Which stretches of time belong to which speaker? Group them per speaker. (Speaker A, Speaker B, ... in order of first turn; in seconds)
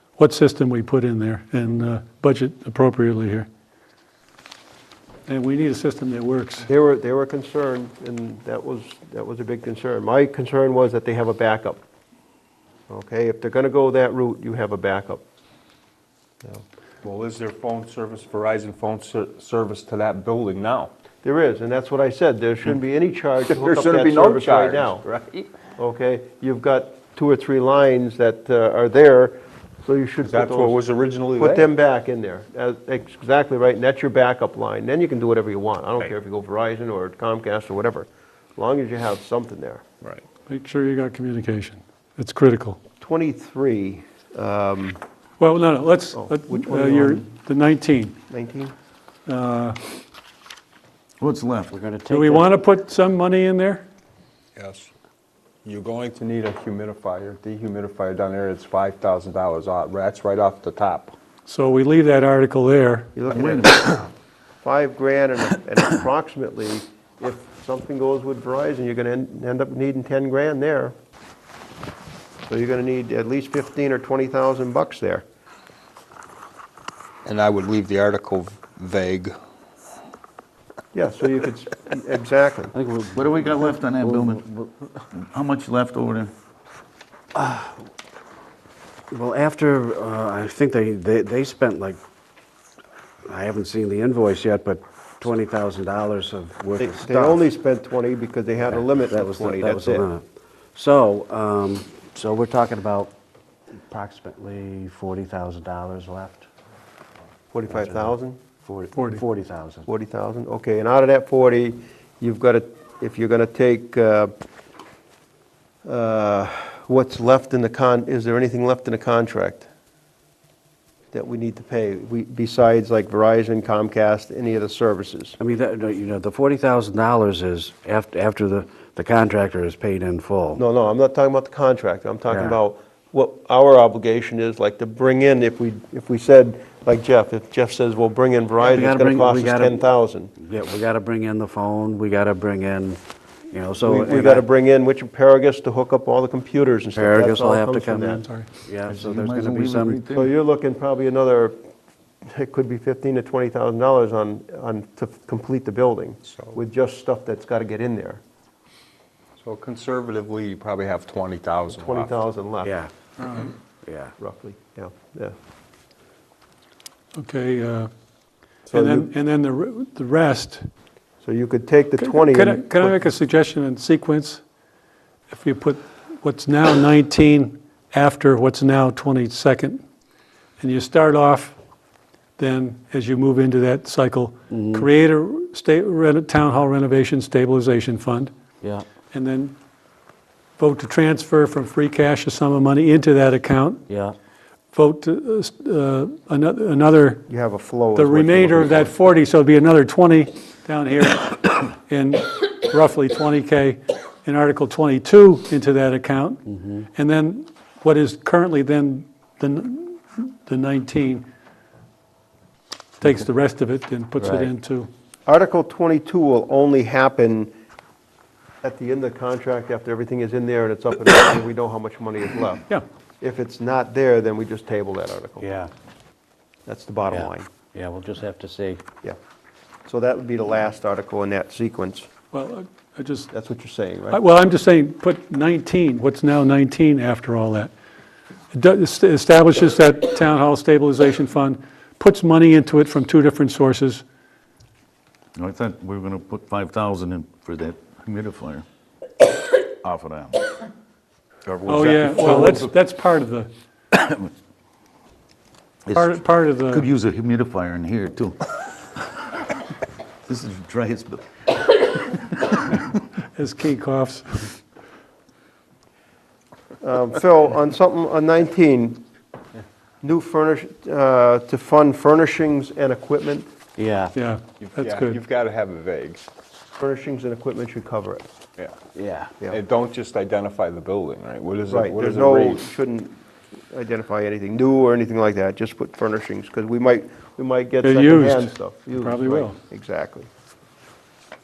Speaker A: 0.2-3.5, 5.3-6.7, 40.5-42.8, 45.4-48.1, 49.3-49.8, 52.1-53.8, 61.5-63.2, 108.9-109.2, 148.2-148.5, 163.2-163.5, 167.2-167.9, 168.7-170.7, 172.0-174.4, 175.3-179.8, 180.6-181.6, 182.4-188.3, 189.1-189.5, 190.6-193.8, 194.7-197.2, 197.9-211.2, 213.0-214.9, 232.3-233.3, 234.1-237.7, 238.5-244.0, 251.6-253.5, 255.9-256.9, 263.3-264.6, 274.1-275.2, 287.8-289.6
Speaker B: 6.7-11.8, 12.9-15.2, 21.2-25.0, 25.8-30.8, 31.4-39.8, 43.0-45.0, 46.1-47.2, 48.3-48.7, 63.1-64.0, 64.6-70.9, 72.5-75.2, 80.9-82.7, 96.8-100.1, 107.5-108.4, 109.9-114.3, 115.8-119.7, 121.1-125.4, 130.6-140.3, 143.8-148.2, 150.1-151.6, 152.2-158.2, 161.8-162.8, 164.2-165.3, 168.7-169.1, 171.2-173.0, 197.3-198.9, 215.2-217.5, 218.6-222.6, 223.2-225.5, 226.7-227.5, 229.8-232.1, 233.3-234.2, 266.8-269.0, 270.0-273.5, 276.8-278.3, 281.7-283.2, 283.7-290.3
Speaker C: 17.0-20.9, 23.5-25.5, 30.2-31.7, 54.5-54.9, 55.6-61.1, 77.2-79.3, 156.2-156.6, 159.4-162.1, 274.6-276.3, 279.5-282.7
Speaker D: 51.2-51.8, 63.3-64.0, 83.1-84.6, 85.1-86.3, 148.8-150.3, 245.3-248.6, 249.8-250.4, 251.4-252.7, 253.9-254.3, 255.8-258.5, 260.2-262.8
Speaker E: 51.7-52.5, 82.7-84.7, 87.3-87.7, 89.1-92.0, 93.2-97.4, 98.6-100.2, 100.7-103.1, 103.9-106.5, 107.7-108.1, 108.6-109.9, 125.4-130.6, 132.3-132.6, 138.6-143.0, 143.5-144.4, 146.9-150.0, 162.6-162.9, 163.8-164.1, 184.5-184.9, 193.9-194.1, 214.2-214.5, 225.4-225.7, 227.1-228.8, 273.8-274.1, 278.9-279.3